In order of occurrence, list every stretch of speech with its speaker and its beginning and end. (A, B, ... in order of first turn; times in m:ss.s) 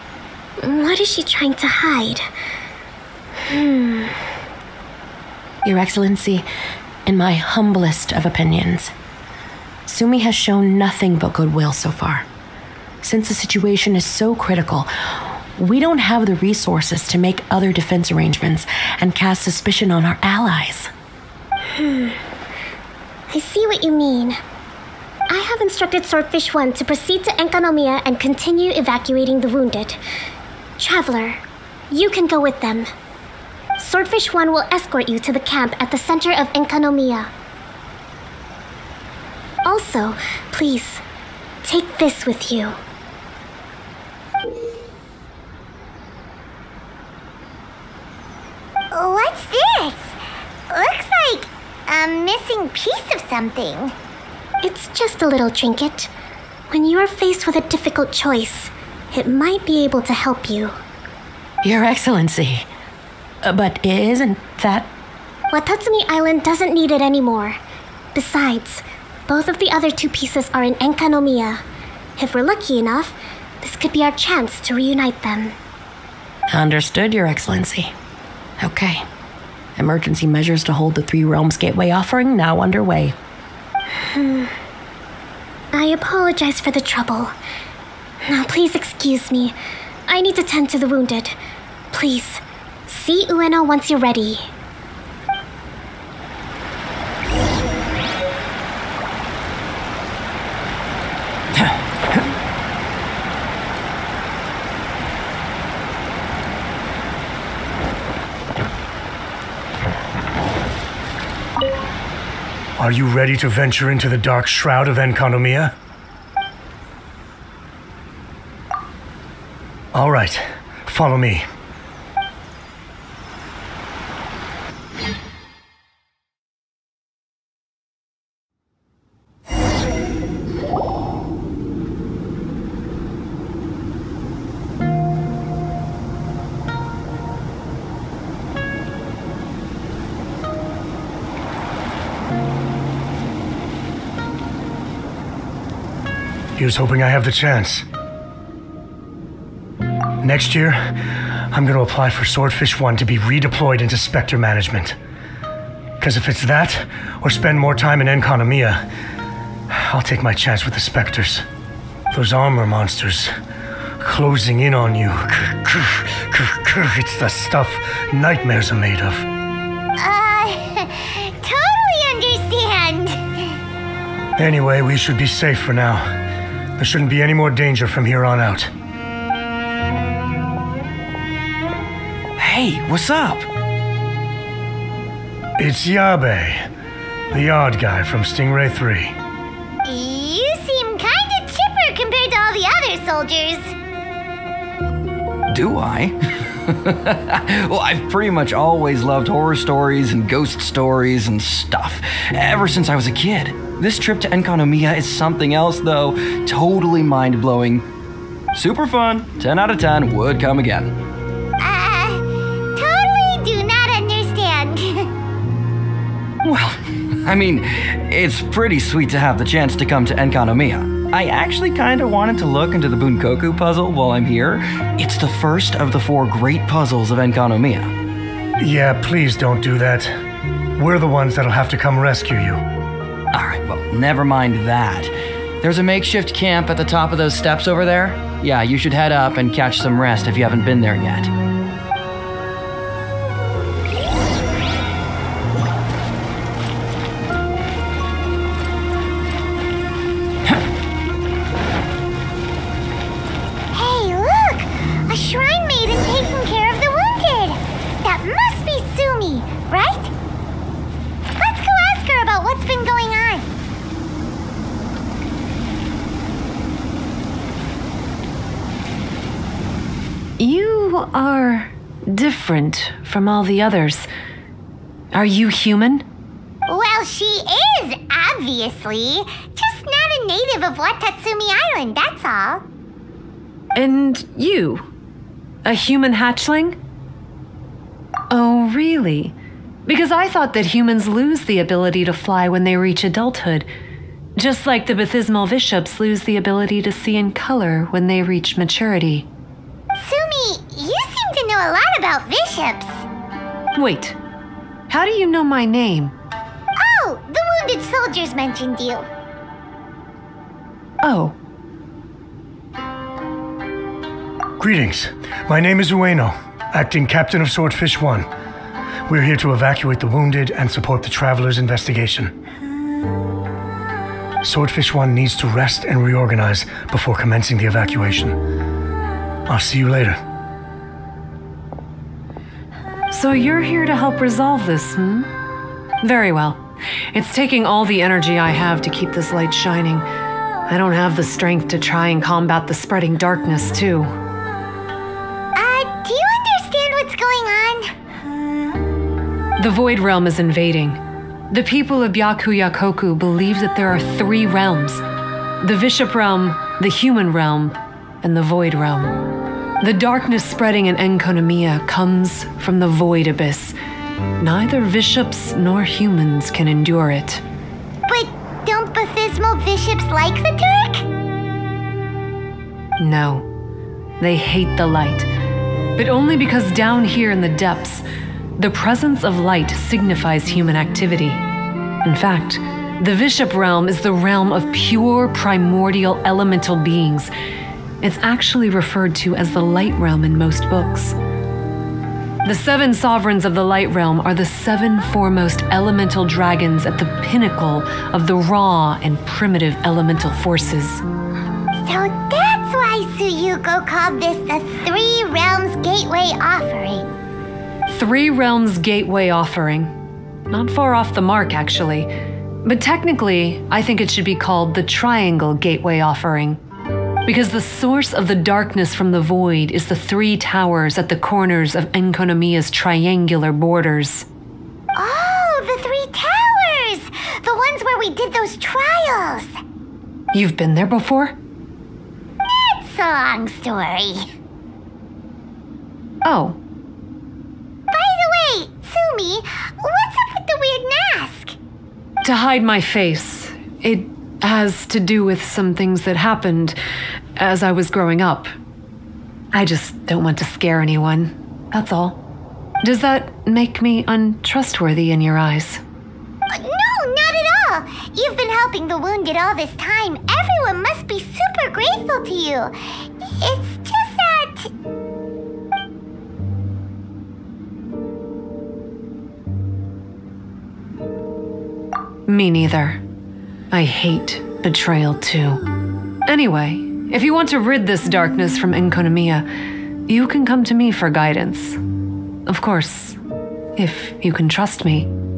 0:00.6-0:02.3 A
0:03.5-0:04.2 A
0:05.6-0:06.5 B
0:07.1-0:08.9 B
0:09.9-0:12.3 B
0:13.0-0:20.9 B
0:21.8-0:22.2 A
0:23.3-0:24.4 A
0:25.3-0:30.0 A
0:30.8-0:32.9 A
0:33.8-0:37.3 A
0:39.6-0:41.0 A
0:41.6-0:42.8 A
0:48.9-0:50.2 C
0:50.7-0:53.9 C
0:54.6-0:56.1 A
0:56.7-1:00.8 A
1:01.6-1:02.7 B
1:03.4-1:04.9 B
1:05.5-1:07.6 A
1:08.2-1:11.6 A
1:12.2-1:15.6 A
1:16.5-1:17.9 B
1:18.6-1:19.0 B
1:19.8-1:23.2 B
1:24.0-1:24.5 A
1:25.7-1:27.4 A
1:28.2-1:29.6 A
1:30.1-1:31.4 A
1:31.9-1:34.5 A
1:52.8-1:55.8 D
1:59.9-2:01.5 D
2:26.6-2:27.9 D
2:30.2-2:35.0 D
2:36.0-2:38.8 D
2:39.7-2:41.4 D
2:42.1-2:43.3 D
2:44.0-2:49.3 D
2:50.0-2:53.5 C
2:54.4-2:56.1 D
2:56.8-2:58.7 D
3:02.4-3:03.5 E
3:05.6-3:06.7 D
3:07.3-3:09.2 D
3:09.9-3:13.8 C
3:15.5-3:16.2 E
3:16.7-3:27.9 E
3:28.5-3:30.9 E
3:31.6-3:32.2 C
3:32.8-3:35.1 C
3:36.4-3:47.9 E
3:48.6-3:50.2 D
3:50.8-3:52.6 D
3:53.3-4:01.3 E
4:13.7-4:20.1 C
4:21.4-4:23.5 C
4:30.4-4:34.1 F
4:35.1-4:36.0 F
4:36.7-4:42.6 C
4:43.8-4:44.8 F
4:45.6-4:46.8 F
4:48.3-4:49.4 F
4:49.9-4:53.7 F
4:54.4-4:59.3 F
5:00.0-5:03.1 C
5:03.8-5:04.2 F
5:04.9-5:06.2 F
5:06.8-5:09.1 C
5:11.0-5:11.4 F
5:14.6-5:18.3 D
5:19.1-5:22.3 D
5:24.4-5:28.4 D
5:29.5-5:30.2 D
5:33.1-5:35.3 F
5:36.0-5:40.1 F
5:40.7-5:44.2 F
5:45.6-5:47.9 C
5:49.6-5:55.0 F
5:55.6-5:59.2 F
5:59.8-6:03.8 F
6:04.4-6:07.4 F
6:08.1-6:11.1 C
6:13.0-6:13.5 F
6:14.2-6:15.3 F
6:16.0-6:18.0 F
6:18.6-6:21.4 F
6:22.0-6:27.3 F
6:28.0-6:31.2 F
6:32.4-6:41.0 F
6:41.8-6:47.1 C
6:47.9-6:49.9 F
6:50.5-6:52.1 F
6:52.6-6:56.6 F
6:57.3-7:04.3 F
7:05.0-7:09.6 C
7:10.3-7:11.4 F
7:12.5-7:14.3 C
7:16.2-7:16.6 F
7:17.9-7:21.6 C
7:22.2-7:26.8 F
7:27.4-7:28.5 F
7:29.5-7:32.2 F
7:32.8-7:35.8 F
7:36.5-7:44.7 C
7:52.3-7:53.0 F
7:53.7-7:55.6 F
7:56.3-7:59.5 F
8:00.1-8:01.8 F
8:02.5-8:03.2 F
8:03.8-8:05.1 F